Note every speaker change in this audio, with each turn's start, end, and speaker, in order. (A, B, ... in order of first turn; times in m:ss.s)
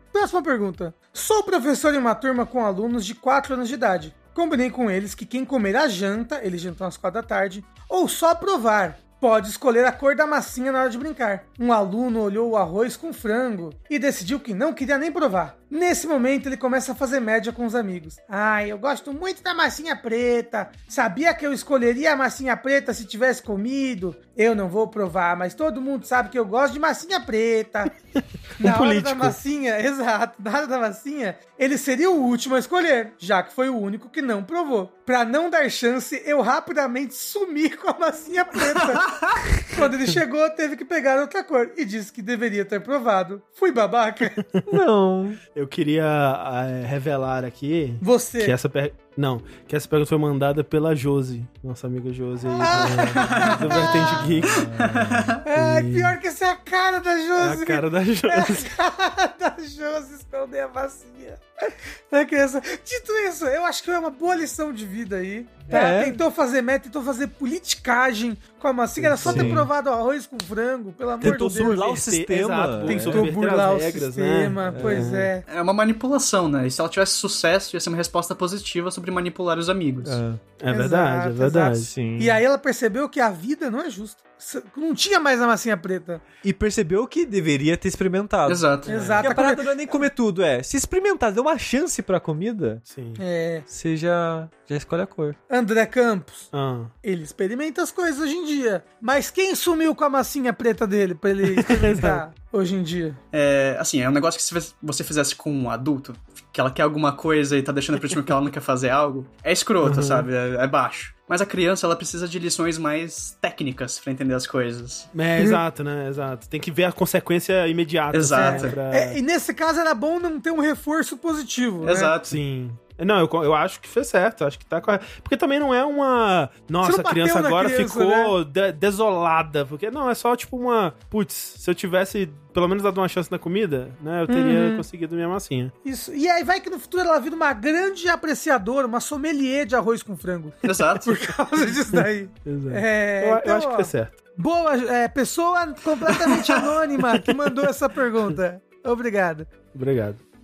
0:00.1-0:27.9 A
0:28.6-0:29.4 B
0:28.6-0:44.4 A
0:39.1-0:39.4 C
0:44.4-0:44.7 B
0:44.7-0:45.4 D
0:45.5-0:54.8 B
0:48.0-0:48.6 A
0:52.6-0:54.3 A
0:52.6-0:53.5 D
0:53.2-0:55.4 C
0:54.2-0:55.4 D
0:55.4-1:11.8 A
0:55.5-0:56.2 B
0:57.4-0:58.7 B
1:05.7-1:06.2 D
1:09.0-1:09.7 B
1:09.2-1:09.7 D
1:11.2-1:13.3 D
1:11.2-1:15.3 B
1:12.9-1:15.4 A
1:14.8-1:15.2 D
1:15.5-1:20.2 C
1:20.0-1:20.4 D
1:20.6-1:21.9 B
1:20.7-1:26.2 A
1:21.8-1:22.4 D
1:26.4-1:32.8 D
1:28.5-1:28.9 C
1:28.9-1:29.3 B
1:28.9-1:30.1 A
1:32.9-1:33.2 B
1:33.2-1:33.7 A
1:33.7-1:35.4 D
1:35.5-1:36.5 A
1:36.5-1:36.9 B
1:37.0-1:43.2 A
1:41.4-1:42.2 B
1:43.3-1:55.1 C
1:49.8-1:50.3 B
1:55.1-1:59.2 B
1:58.1-1:58.8 C
1:58.4-2:02.1 A
2:01.8-2:02.4 C
2:02.3-2:15.7 B
2:06.8-2:08.3 A
2:14.3-2:14.8 A
2:15.8-2:29.5 A
2:20.6-2:21.2 C
2:21.9-2:24.2 B
2:26.2-2:26.6 C
2:29.7-2:30.2 B